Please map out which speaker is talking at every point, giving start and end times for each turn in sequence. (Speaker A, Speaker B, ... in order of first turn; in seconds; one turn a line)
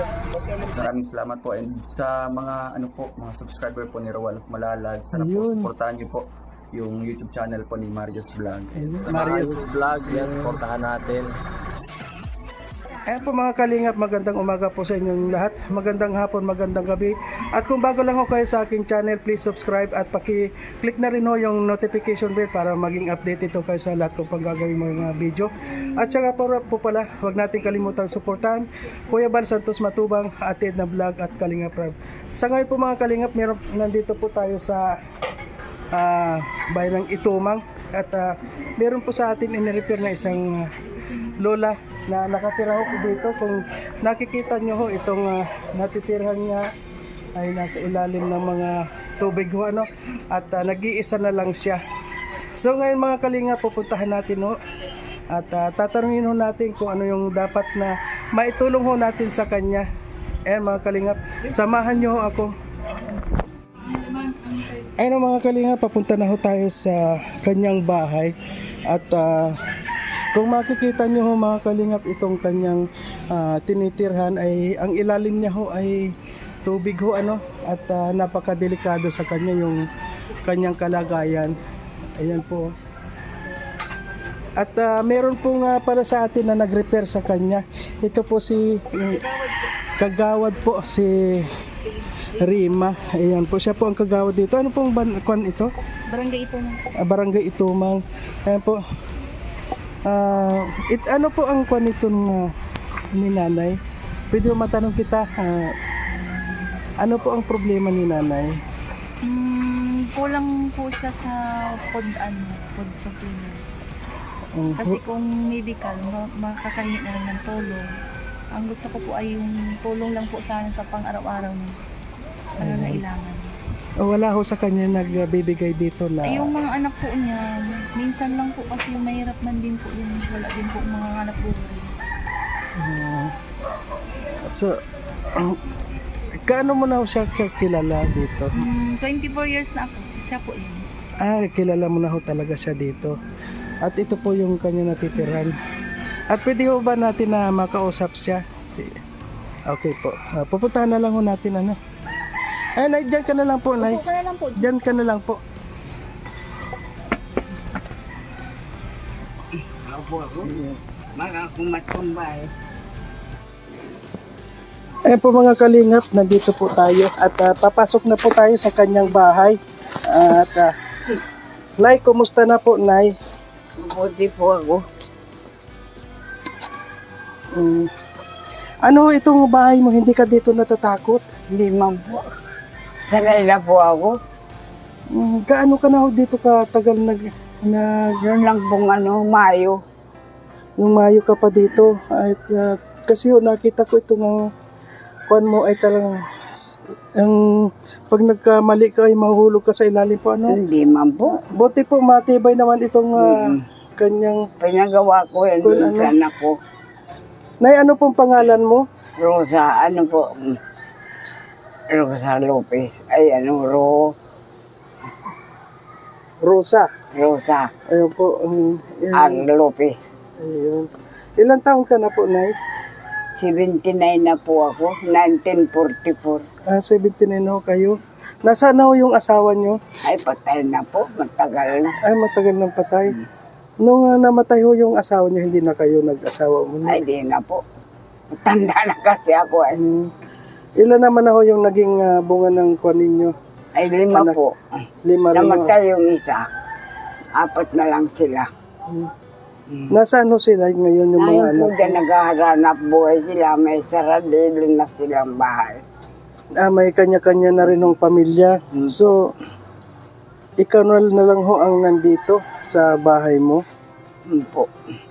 Speaker A: 0.7-9.3
Speaker B: 5.1-5.7
Speaker B: 8.8-9.7
Speaker C: 9.2-11.3
Speaker B: 13.1-34.9
Speaker B: 35.9-40.7
Speaker B: 41.4-46.6
Speaker B: 47.4-51.8
Speaker B: 52.6-54.5
Speaker B: 55.3-59.9
Speaker B: 60.5-62.5
Speaker B: 64.3-68.3
Speaker B: 68.9-69.6
Speaker B: 70.3-76.1
Speaker B: 76.6-79.8
Speaker B: 80.4-81.5
Speaker B: 82.2-82.7
Speaker B: 84.6-89.2
Speaker B: 90.0-91.5
Speaker B: 92.4-95.7
Speaker D: 96.1-96.8
Speaker B: 97.0-98.8
Speaker B: 100.0-102.5
Speaker B: 103.1-103.8
Speaker B: 104.3-105.7
Speaker B: 107.0-108.5
Speaker D: 109.2-113.6
Speaker B: 114.5-115.0
Speaker D: 114.8-117.9
Speaker D: 118.5-121.7
Speaker D: 122.6-123.5
Speaker B: 122.6-123.0
Speaker B: 124.0-126.5
Speaker D: 126.2-131.9
Speaker B: 132.8-133.3
Speaker B: 134.3-134.8
Speaker B: 135.3-135.6
Speaker B: 136.4-138.6
Speaker D: 138.5-140.8
Speaker B: 141.2-143.2
Speaker B: 143.8-145.5
Speaker B: 146.3-149.0
Speaker B: 149.7-151.8
Speaker B: 152.8-154.0
Speaker D: 153.8-154.7
Speaker B: 154.6-155.4
Speaker E: 159.6-160.6
Speaker B: 160.4-160.8
Speaker E: 161.1-162.5
Speaker B: 165.1-170.7
Speaker B: 171.8-173.1
Speaker E: 173.8-174.8
Speaker B: 177.5-177.9
Speaker B: 178.8-181.2
Speaker E: 181.5-182.3
Speaker E: 183.1-184.2
Speaker B: 185.1-188.1
Speaker E: 188.2-189.8
Speaker B: 190.8-194.5
Speaker B: 195.3-200.6
Speaker E: 200.5-201.4
Speaker B: 201.3-204.4
Speaker E: 203.2-203.6
Speaker E: 204.6-206.5
Speaker B: 205.6-206.1
Speaker B: 207.6-208.8
Speaker E: 209.2-210.6
Speaker E: 211.9-214.1
Speaker B: 216.4-216.9
Speaker E: 217.1-217.7
Speaker B: 217.9-219.4
Speaker E: 219.1-220.1
Speaker B: 220.4-222.5
Speaker E: 223.3-226.4
Speaker B: 226.7-229.8
Speaker E: 230.0-232.0
Speaker B: 232.0-233.1
Speaker B: 233.8-237.0
Speaker E: 236.8-237.6
Speaker E: 238.3-239.8
Speaker B: 239.7-240.1
Speaker B: 240.8-243.3
Speaker E: 243.7-244.6
Speaker B: 244.1-244.4
Speaker B: 245.0-245.7
Speaker E: 245.3-246.5
Speaker E: 247.3-248.5
Speaker E: 249.7-250.0
Speaker B: 249.9-252.0
Speaker E: 251.2-255.8
Speaker B: 256.6-259.3
Speaker E: 258.8-259.1
Speaker B: 260.6-263.6
Speaker E: 264.3-264.7